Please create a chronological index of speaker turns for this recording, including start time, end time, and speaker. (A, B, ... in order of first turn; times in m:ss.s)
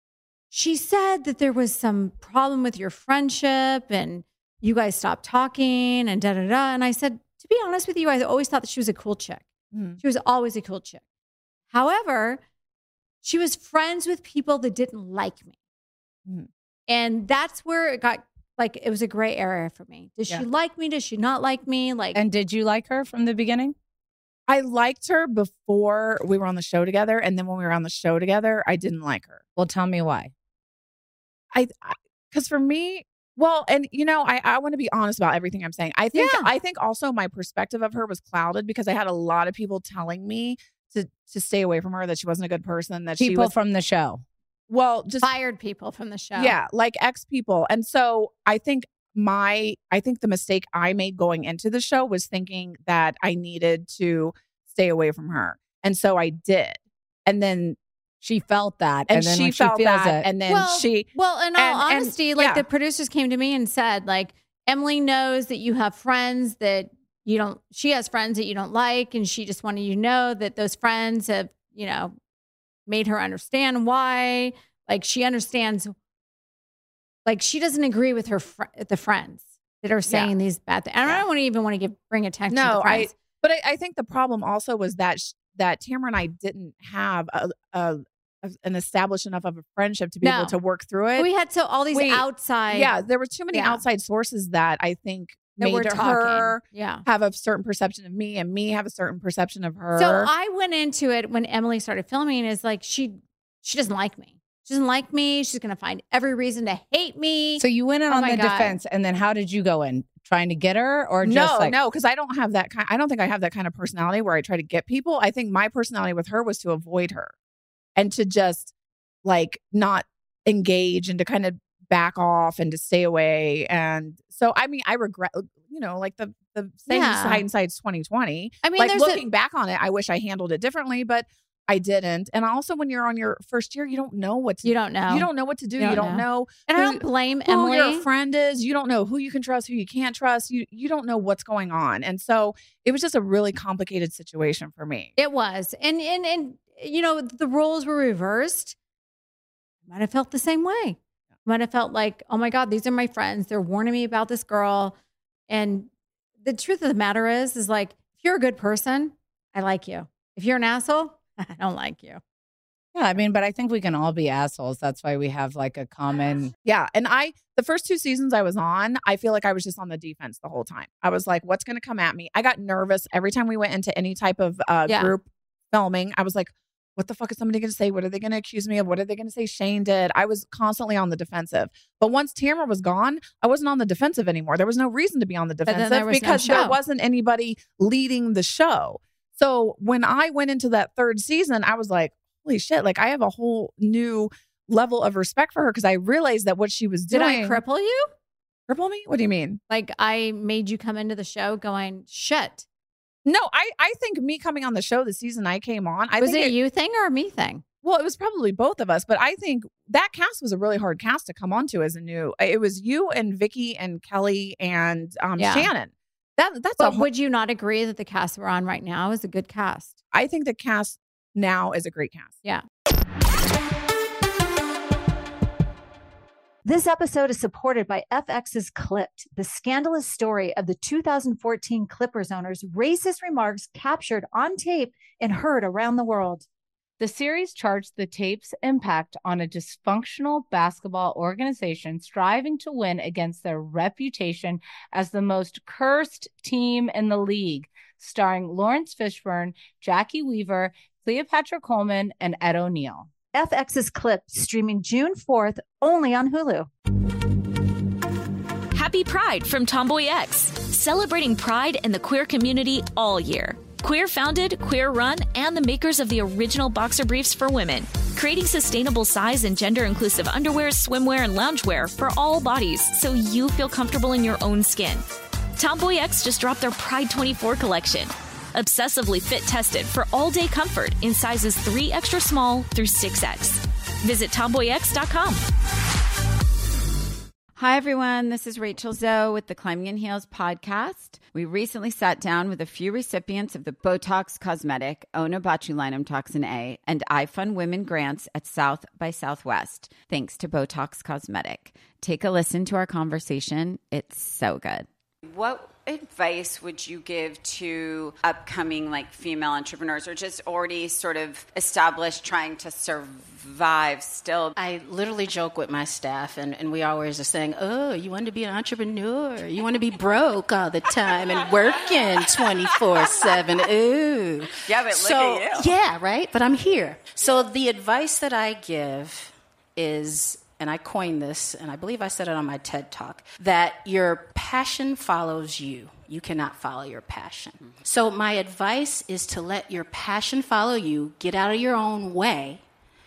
0:00.5-0:09.5 A
0:09.7-0:10.0 B
0:10.0-0:11.0 A
0:11.7-0:12.4 A
0:13.2-0:15.5 A
0:16.9-0:22.2 A
0:22.1-0:23.8 C
0:24.5-0:29.4 B
0:29.6-0:30.3 C
0:31.5-0:43.5 B
0:36.1-0:36.5 A
0:43.2-0:44.2 C
0:44.7-0:45.3 B
0:45.2-0:46.6 A
0:46.4-0:57.8 B
0:58.2-1:00.3 C
0:59.1-1:02.6 B
1:00.5-1:12.2 A
1:12.9-1:16.0 A
1:17.2-1:23.2 A
1:20.1-1:20.3 B
1:22.5-1:31.3 B
1:30.2-1:30.6 A
1:31.2-1:32.9 A
1:31.9-1:40.3 B
1:33.5-1:33.8 A
1:35.6-1:37.0 A
1:40.0-1:48.8 A
1:47.6-1:51.8 C
1:51.2-1:57.3 B
1:58.0-1:58.7 B
1:59.2-2:25.1 B
2:06.9-2:07.4 A
2:08.6-2:09.2 A
2:14.6-2:18.1 A
2:25.2-2:28.8 A
2:29.9-2:35.0 A
2:35.5-2:35.9 A
2:36.4-2:42.2 A
2:42.9-2:46.5 C
2:46.6-3:17.6 B
2:54.9-2:55.1 A
3:05.7-3:06.8 A
3:17.1-3:18.1 A
3:18.7-3:19.6 B
3:19.7-3:22.6 A
3:23.2-3:26.5 B
3:26.2-3:27.6 A
3:27.8-3:37.1 B
3:35.4-3:35.7 A
3:36.8-3:40.0 A
3:40.1-3:42.4 B
3:46.6-3:56.4 D
3:57.0-4:13.1 C
4:13.3-4:16.7 D
4:18.7-4:35.0 E
4:35.6-4:45.4 E
4:47.6-5:14.5 F
5:14.6-5:42.6 G
5:23.0-5:23.3 F
5:24.7-5:25.7 F